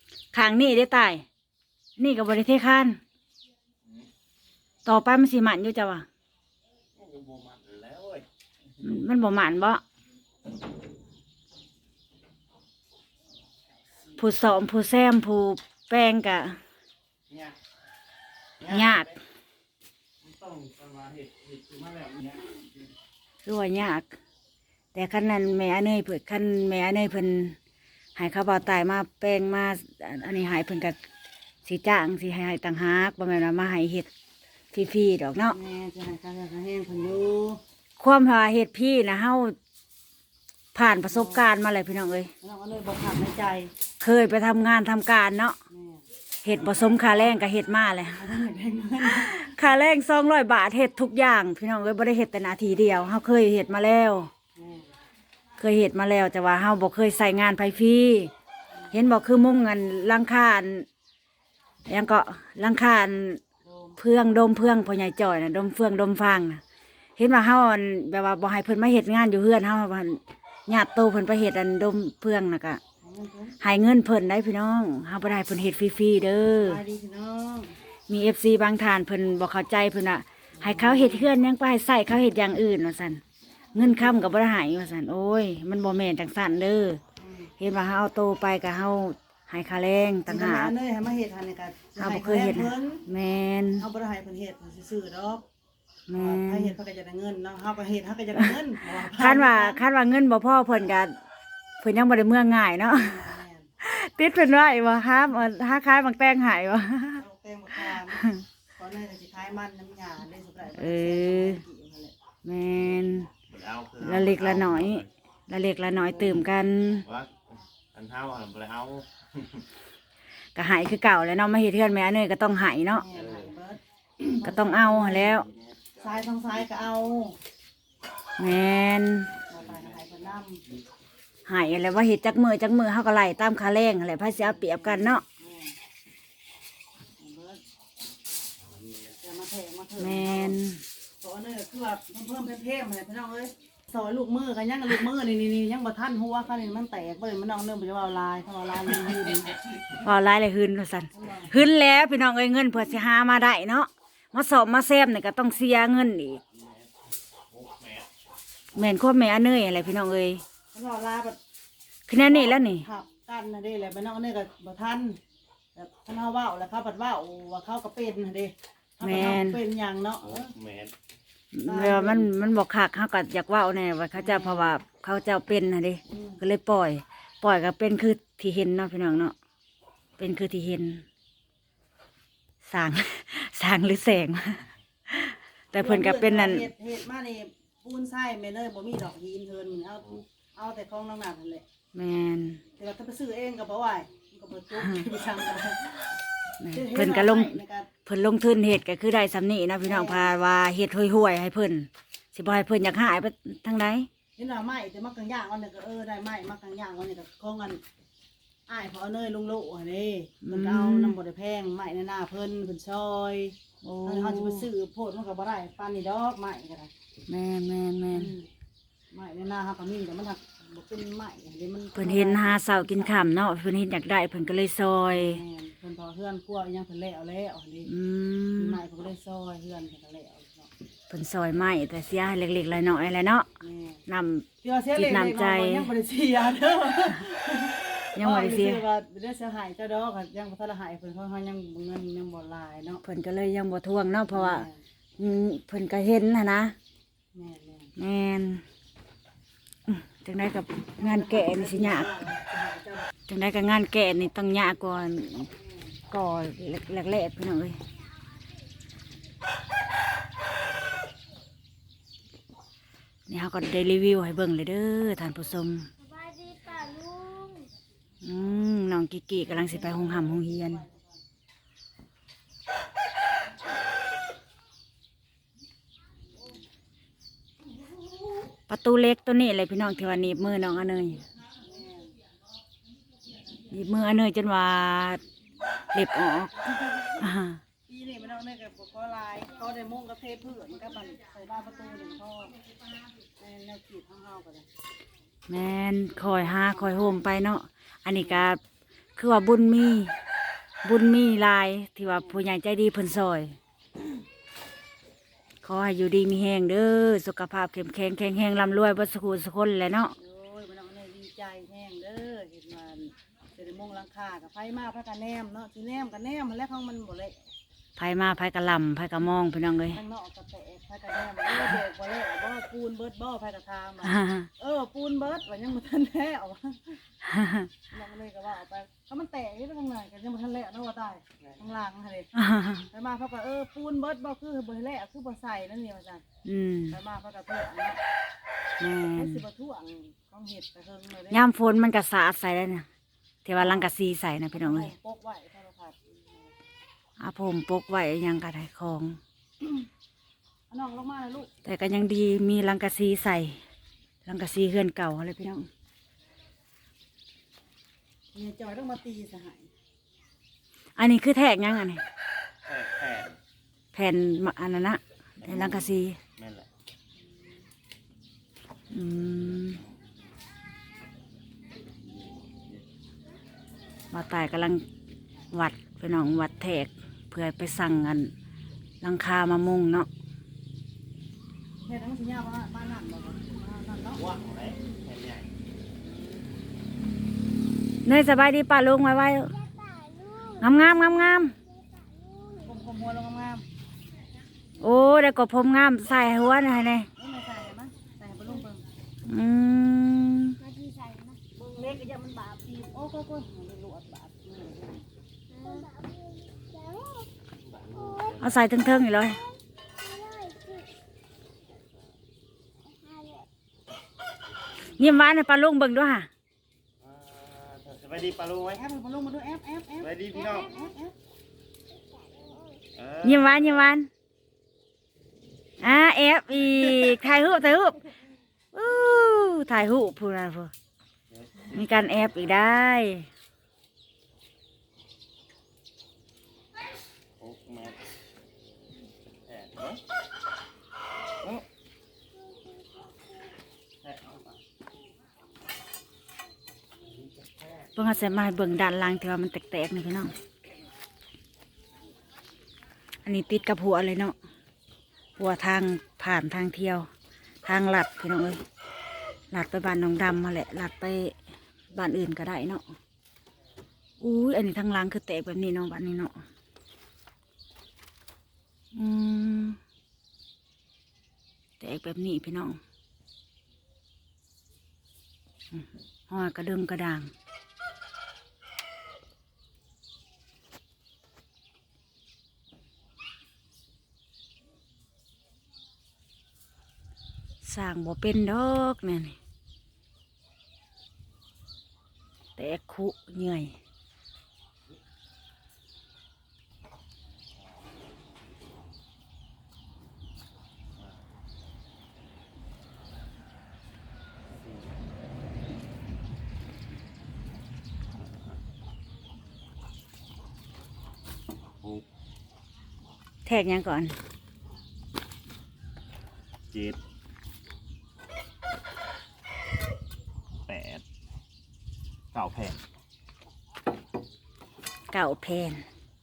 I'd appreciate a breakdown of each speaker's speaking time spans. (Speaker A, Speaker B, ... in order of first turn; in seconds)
Speaker A: 0.3-1.2, 2.0-3.0, 4.8-6.0, 8.8-9.8, 14.2-16.6, 18.7-19.2, 23.4-24.1, 24.9-27.6, 28.1-31.0, 31.6-34.1, 34.7-35.6, 38.0-39.5, 40.7-42.3, 44.0-45.5, 46.4-48.3, 49.0-54.3, 55.6-58.3, 58.9-60.9, 61.9-63.4, 64.0-66.6, 67.2-72.8, 73.6-76.8, 78.1-83.2, 83.7-87.0, 87.6-90.7, 92.0-93.8, 96.1-96.7, 98.4-101.1, 101.8-103.2, 103.8-107.2, 107.8-108.4, 110.7-111.6, 112.4-113.3, 114.0-117.0, 120.5-123.0, 124.4-125.5, 128.4-129.3, 131.4-135.2, 140.0-140.8, 149.9-156.4, 158.7-160.4, 162.1-162.8, 169.0-169.6, 171.5-179.3, 180.2-181.0, 182.6-186.7, 191.9-192.6, 196.6-204.1, 210.4-211.2, 213.8-214.7, 217.3-218.3, 221.9-225.4, 227.8-228.8, 231.1-233.5, 234.1-235.9, 238.1-238.8, 243.0-244.7, 245.2-246.7, 248.0-248.6, 249.8-252.1, 253.3-255.5, 256.1-257.8, 263.3-265.9, 268.2-270.8, 278.7-281.2, 283.7-285.2, 285.9-287.6, 295.5-298.6, 299.2-300.1, 300.8-303.6, 305.6-310.1, 317.9-320.0, 324.0-324.5, 327.2-327.7, 332.3-332.9, 336.4-337.0, 338.8-339.4, 341.3-342.9, 343.4-344.9, 347.2-349.2, 351.6-353.6, 354.2-355.7, 361.0-362.0, 363.9-366.2, 368.9-369.8, 374.1-374.8, 375.5-378.3, 379.0-380.1, 388.0-389.6, 390.6-391.5, 394.8-397.1, 399.2-400.6, 408.4-409.4, 414.9-416.3, 423.2-424.1, 425.8-428.0, 428.7-430.7, 431.7-433.3, 447.9-450.3, 453.2-454.3, 455.4-457.1, 457.6-458.6, 459.5-461.3, 461.9-462.8, 464.2-466.3, 468.9-469.8, 471.8-472.8, 475.7-477.3, 487.6-489.4, 492.6-493.8, 513.4-514.1, 525.1-525.8
Speaker B: 6.9-8.2, 17.3-17.6, 18.6-19.1, 20.2-22.6, 113.5-115.1, 117.0-119.6, 123.1-123.5, 125.5-126.4, 157.5-158.1, 170.2-170.9, 362.6-363.4, 365.4-366.7, 372.0-372.8, 384.1-385.5, 407.6-408.6, 417.0-418.8, 420.0-420.7, 422.9-424.0, 431.3-432.0, 437.4-438.0, 439.5-440.0, 441.4-441.6, 444.0-444.6, 447.1-447.9, 504.6-504.9, 516.7-517.0, 520.7-521.0, 522.3-522.8
Speaker C: 35.5-37.6, 41.1-41.5, 42.4-43.7, 45.7-46.0, 48.1-49.4, 54.5-54.9, 63.6-64.0, 73.0-73.6, 76.5-77.7, 80.6-81.3, 83.8-84.2, 87.2-87.5, 90.3-93.0, 93.8-95.4, 96.1-99.8, 102.9-103.7, 107.1-112.1, 122.9-125.4, 126.0-127.4, 129.5-130.6, 134.4-135.7, 137.2-137.6, 139.2-140.6, 141.2-149.6, 151.1-151.5, 160.7-161.4, 162.1-165.2, 165.7-170.5, 171.7-172.4, 174.2-174.7, 176.1-176.4, 185.7-191.6, 192.8-196.1, 196.7-197.9, 199.8-200.3, 204.4-207.8, 208.7-216.9, 218.1-218.5, 219.1-223.1, 225.1-227.9, 228.6-230.7, 233.6-234.0, 234.6-243.0, 244.3-244.8, 247.3-247.9, 251.0-253.1, 266.5-267.2, 269.4-271.2, 281.6-282.1, 287.9-292.6, 293.4-294.7, 296.5-297.0, 310.2-317.4, 319.9-327.0, 327.9-332.3, 332.9-336.2, 336.9-338.0, 339.1-341.5, 343.6-343.9, 344.6-346.5, 350.7-351.5, 358.3-359.7, 381.8-384.2, 392.6-393.6, 397.2-398.8, 401.5-405.1, 418.7-421.1
Speaker D: 267.3-267.6, 389.9-390.4, 400.6-401.3, 405.8-406.2, 406.8-407.2, 410.2-410.6